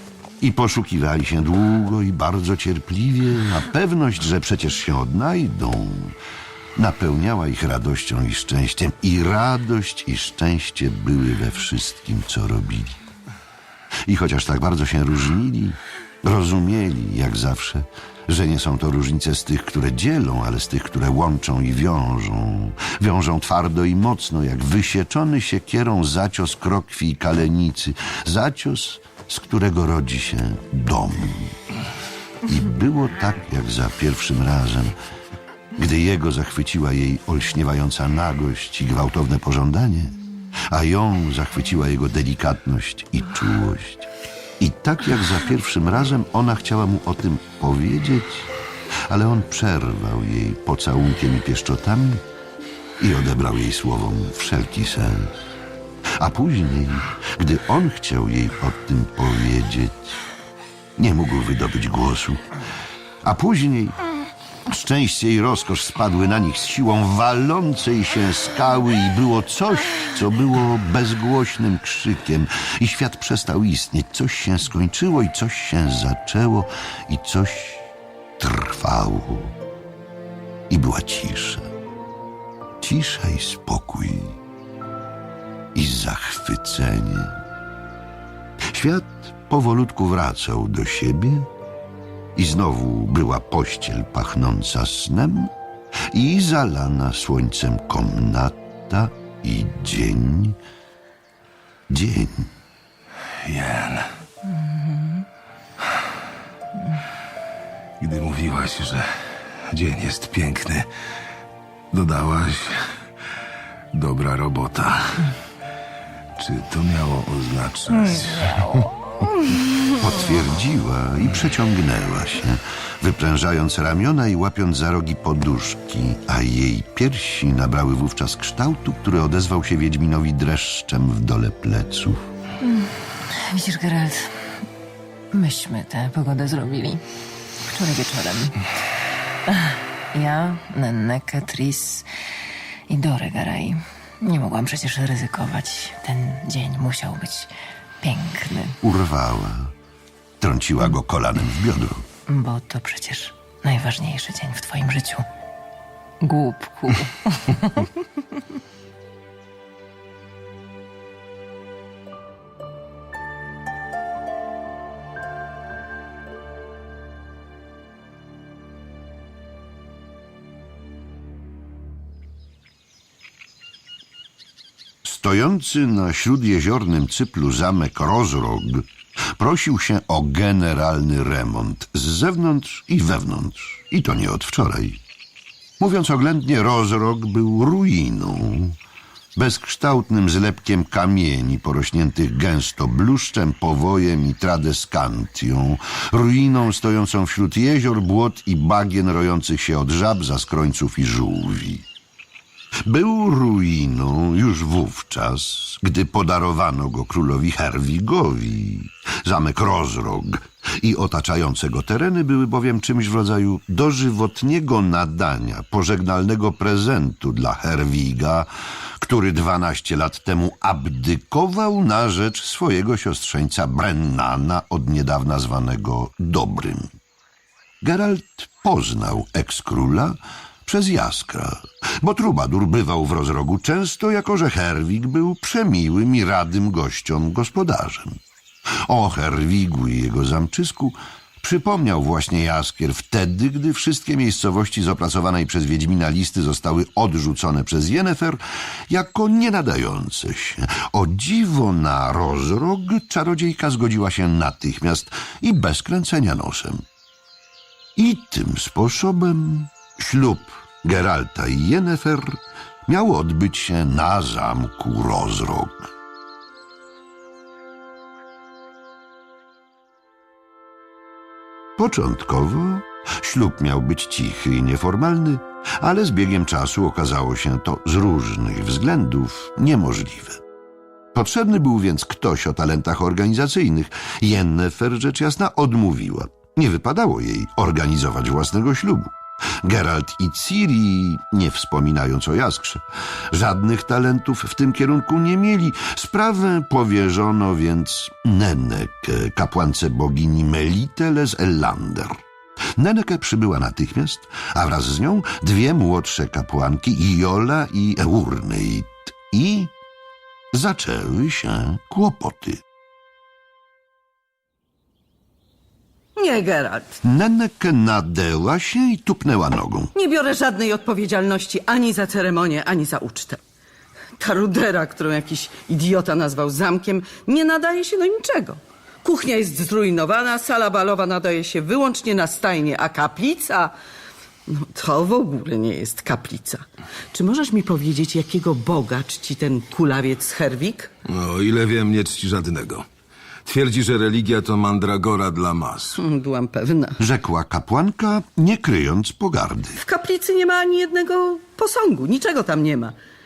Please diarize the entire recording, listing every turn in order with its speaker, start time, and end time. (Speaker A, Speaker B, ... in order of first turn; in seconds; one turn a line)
Speaker A: 0.4-6.2
Speaker A: 6.8-13.0
Speaker A: 14.1-31.6
Speaker A: 32.5-35.0
Speaker A: 35.8-40.1
Speaker A: 40.7-48.5
Speaker A: 49.1-52.2
Speaker A: 53.0-55.3
Speaker A: 56.2-60.2
Speaker A: 61.0-62.5
Speaker A: 63.2-64.0
Speaker A: 64.7-77.9
Speaker A: 78.4-79.5
Speaker A: 80.7-81.7
Speaker A: 82.8-84.4
Speaker A: 85.8-87.4
Speaker A: 88.7-91.5
Speaker A: 92.4-95.5
Speaker A: 96.1-100.6
Speaker A: 101.9-102.5
Speaker B: 103.4-104.1
Speaker B: 108.0-110.9
Speaker B: 111.9-112.9
Speaker B: 113.9-115.3
Speaker B: 116.4-118.9
Speaker A: 119.9-132.2
Speaker C: 132.6-134.6
Speaker C: 135.3-137.0
Speaker C: 137.6-138.7
Speaker C: 139.5-142.1
Speaker C: 142.9-148.8
Speaker A: 148.8-149.7
Speaker A: 150.4-152.1
Speaker C: 152.3-155.3
Speaker C: 156.2-157.9
Speaker A: 175.0-185.0
Speaker A: 185.8-188.8
Speaker A: 189.4-201.9
Speaker A: 202.9-226.9
Speaker A: 227.8-238.2
Speaker A: 238.8-256.8
Speaker A: 258.0-265.9
Speaker A: 271.8-280.4
Speaker A: 281.1-302.2
Speaker A: 302.8-309.7
Speaker A: 310.5-312.6
Speaker D: 316.2-317.0
Speaker A: 317.0-319.9
Speaker D: 319.9-323.4
Speaker D: 324.2-333.7
Speaker D: 334.5-340.9
Speaker B: 341.1-342.9
Speaker B: 343.4-346.0
Speaker D: 346.0-347.0
Speaker A: 347.0-349.8
Speaker D: 349.8-353.0